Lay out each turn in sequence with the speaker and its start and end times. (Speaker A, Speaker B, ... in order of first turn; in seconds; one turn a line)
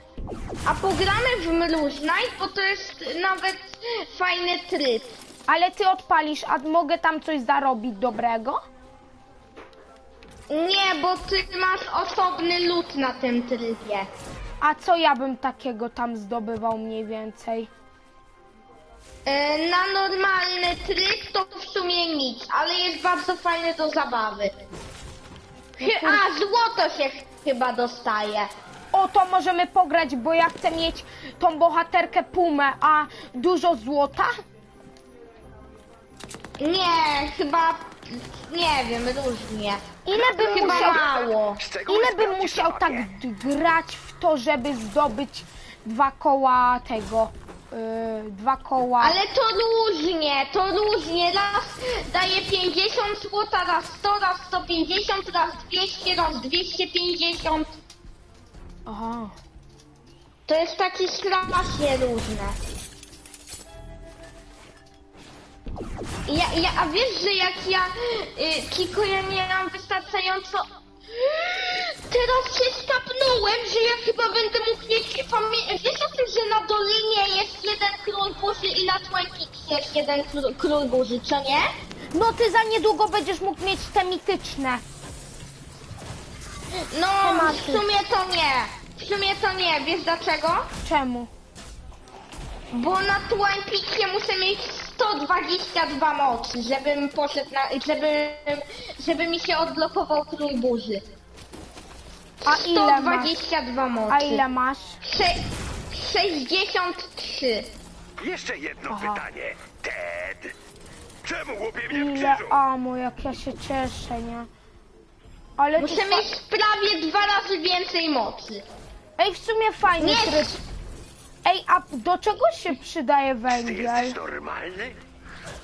Speaker A: 0.6-5.1
Speaker B: 5.5-8.6
Speaker A: 10.5-14.1
Speaker B: 14.6-17.7
Speaker A: 19.2-24.5
Speaker B: 25.8-26.2
Speaker A: 25.8-28.5
Speaker B: 28.9-34.3
Speaker A: 36.6-41.6
Speaker B: 40.0-41.0
Speaker C: 40.1-43.1
Speaker B: 41.9-49.2
Speaker A: 49.0-57.8
Speaker B: 58.9-59.3
Speaker A: 60.5-62.6
Speaker A: 66.3-81.7
Speaker B: 82.1-84.8
Speaker A: 86.9-90.7
Speaker B: 87.2-87.8
Speaker B: 90.8-91.3
Speaker A: 92.7-101.0
Speaker A: 102.4-104.4
Speaker B: 102.5-103.3
Speaker B: 104.1-105.0
Speaker A: 105.0-105.3
Speaker A: 105.9-107.7
Speaker C: 108.2-110.5
Speaker B: 108.9-109.2
Speaker C: 111.2-112.6
Speaker B: 111.9-114.5
Speaker B: 115.6-116.3
Speaker A: 115.8-118.6
Speaker B: 119.2-120.5
Speaker A: 120.0-120.6
Speaker B: 121.4-124.2
Speaker C: 123.5-125.0